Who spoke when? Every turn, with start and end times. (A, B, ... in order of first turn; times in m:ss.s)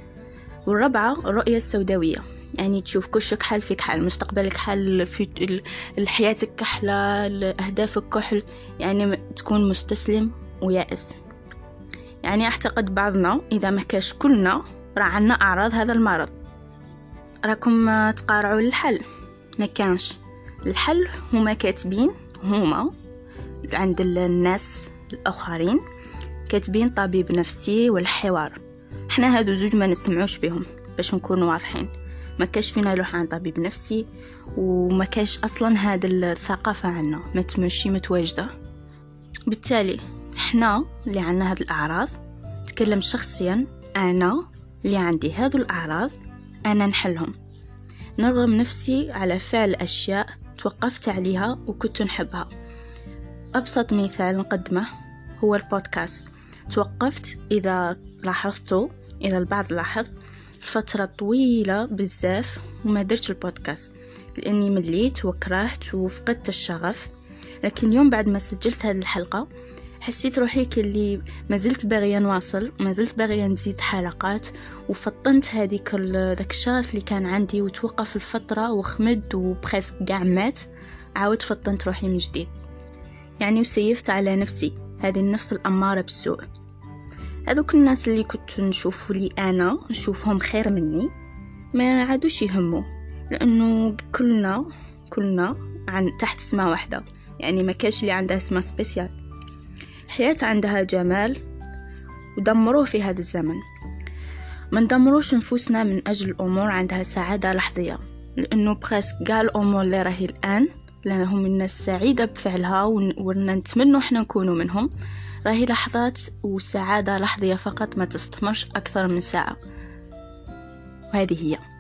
0:00.7-0:11.2 A
0:12.2-0:16.3 A
0:17.4-0:19.0 A
0:19.6-0:22.9 A
0:23.6-0:25.8 A
0:26.5-0:34.0 A
0:34.6-0:38.5 A
0:39.5-0:46.1 A
0:46.6-0:47.3 A
0:48.2-0:52.5 A
0:53.5-1:07.1 A
1:07.6-1:09.5 A
1:10.0-1:20.6 A
1:21.2-1:22.5 A
1:23.4-1:26.4 A
1:27.5-1:31.1 A
1:31.7-1:39.1 A
1:40.1-1:41.4 A
1:42.4-1:43.6 A
1:44.7-1:54.9 A
1:55.4-1:59.6 A
2:01.1-2:01.6 A